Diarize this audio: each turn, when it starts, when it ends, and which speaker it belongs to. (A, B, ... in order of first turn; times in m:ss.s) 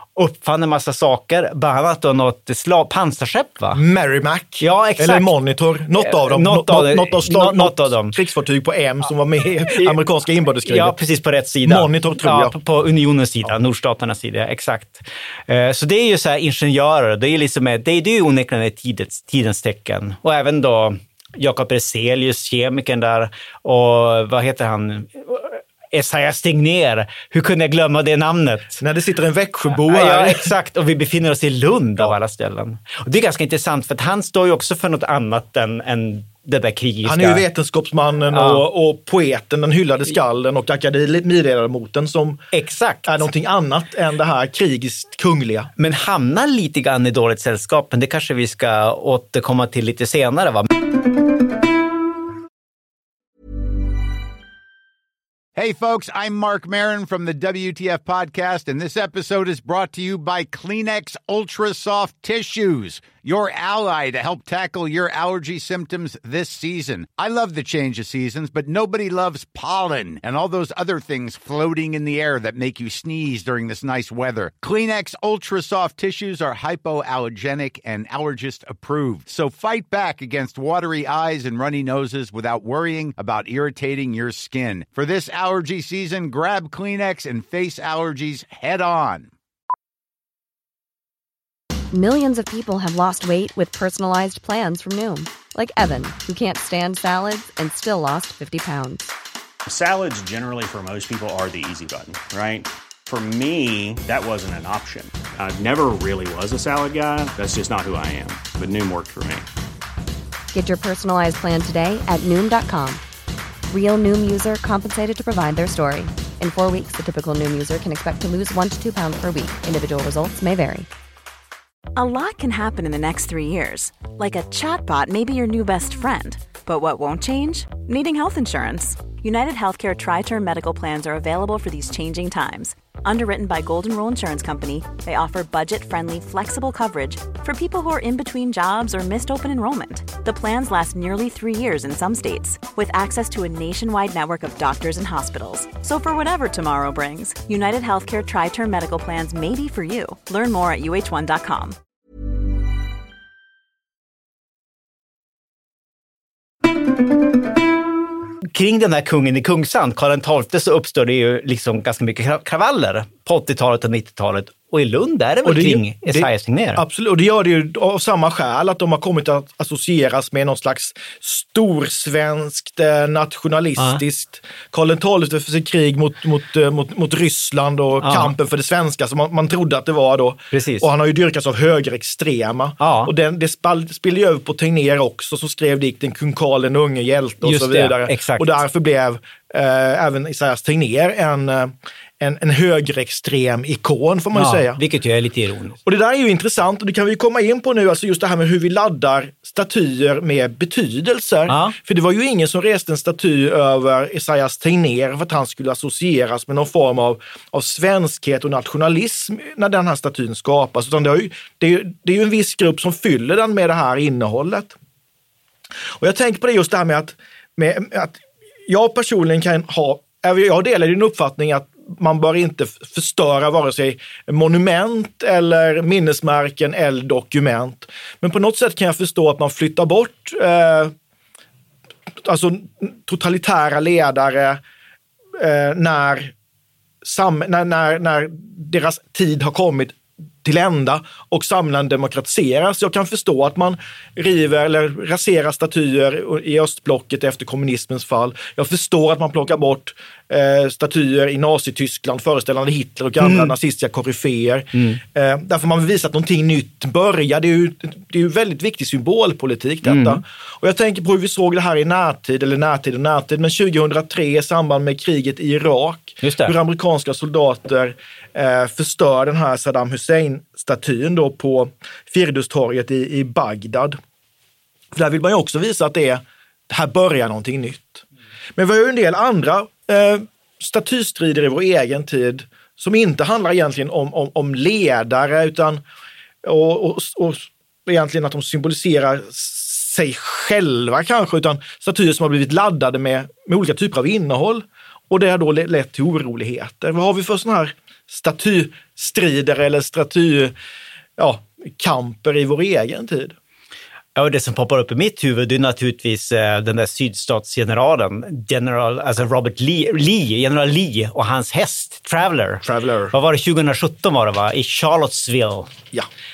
0:00.2-0:03.8 A
0:03.7-0:11.0 B
0:04.6-0:05.3 A
0:06.0-0:08.2 A
0:09.7-0:10.0 A
0:10.7-0:28.8 A
0:11.6-0:12.5 B
0:28.8-0:30.5 B
0:29.9-0:37.4 A
0:37.0-0:42.5 B
0:38.3-0:38.6 A
0:42.5-0:43.2 A
0:43.0-0:45.7 B
0:45.8-0:50.7 A
0:55.6-1:29.3 C
1:31.9-1:39.1 D
1:39.7-1:49.5 E
1:50.5-1:53.0 D
1:53.7-2:00.9 D
2:02.0-2:31.8 F
2:38.5-2:46.8 A
2:45.4-3:14.8 B
2:58.0-2:58.3 A
3:00.5-3:00.9 A
3:02.8-3:03.1 A
3:07.4-3:08.6 A
3:14.3-3:15.8 A
3:15.8-3:34.8 B
3:21.5-3:21.8 A
3:36.0-3:50.9 B
3:52.2-3:54.6 B
3:55.4-3:56.3 B
3:57.0-4:34.0 B
4:13.2-4:13.5 A
4:14.8-4:15.0 A
4:19.8-4:20.2 A
4:26.2-4:26.6 A
4:34.9-4:38.0 B
4:38.6-4:45.8 B
4:46.4-5:00.6 B
5:01.2-5:03.4 B
5:04.2-5:15.7 A
5:12.6-5:13.1 B